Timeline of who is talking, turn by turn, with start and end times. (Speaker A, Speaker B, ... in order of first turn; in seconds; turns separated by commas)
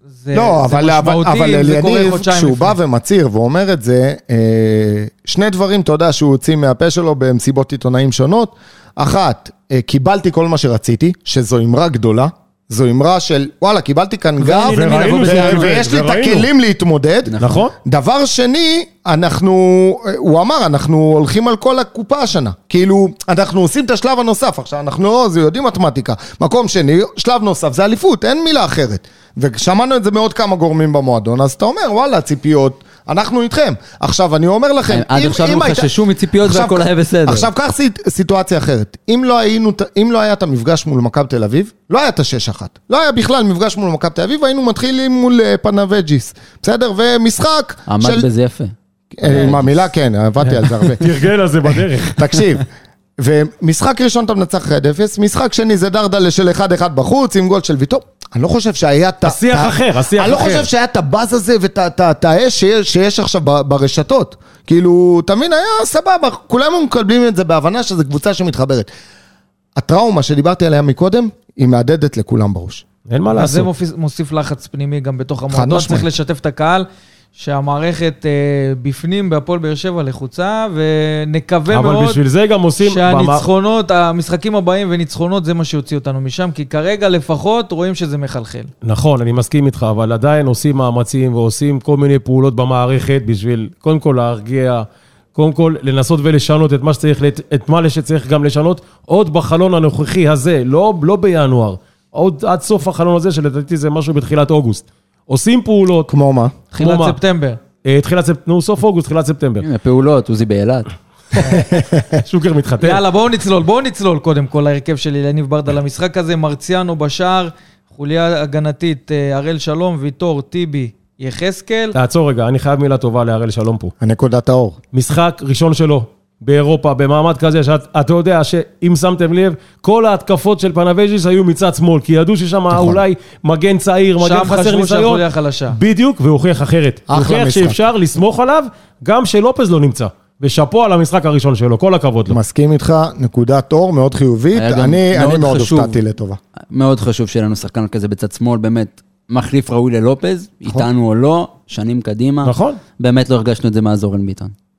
Speaker A: 0.2-2.8, Speaker B: 0.3-48.3, Speaker C: 14.4-15.8, Speaker D: 14.6-16.5, Speaker C: 17.2-17.6, Speaker D: 17.4-17.7, Speaker C: 34.9-37.5, Speaker C: 47.9-48.7, Speaker B: 49.1-52.6, Speaker D: 50.4-52.3, Speaker B: 53.2-68.9, Speaker D: 59.2-60.7, Speaker B: 69.8-72.8, Speaker D: 73.1-73.7, Speaker A: 73.3-82.2, Speaker B: 75.5-76.1, Speaker D: 81.7-83.5, Speaker A: 82.8-88.7, Speaker D: 88.8-106.1, Speaker B: 106.1-106.5, Speaker A: 106.7-107.6, Speaker D: 106.8-107.2, Speaker D: 107.8-109.6, Speaker C: 109.6-110.9, Speaker B: 111.3-112.2, Speaker D: 112.2-113.0, Speaker A: 112.8-122.0, Speaker D: 121.9-123.9, Speaker B: 124.0-124.8, Speaker D: 124.9-142.4, Speaker B: 132.7-133.0, Speaker A: 134.2-135.8, Speaker B: 137.1-137.8, Speaker B: 142.3-146.4, Speaker C: 144.5-146.0, Speaker C: 146.7-154.5, Speaker D: 152.4-152.8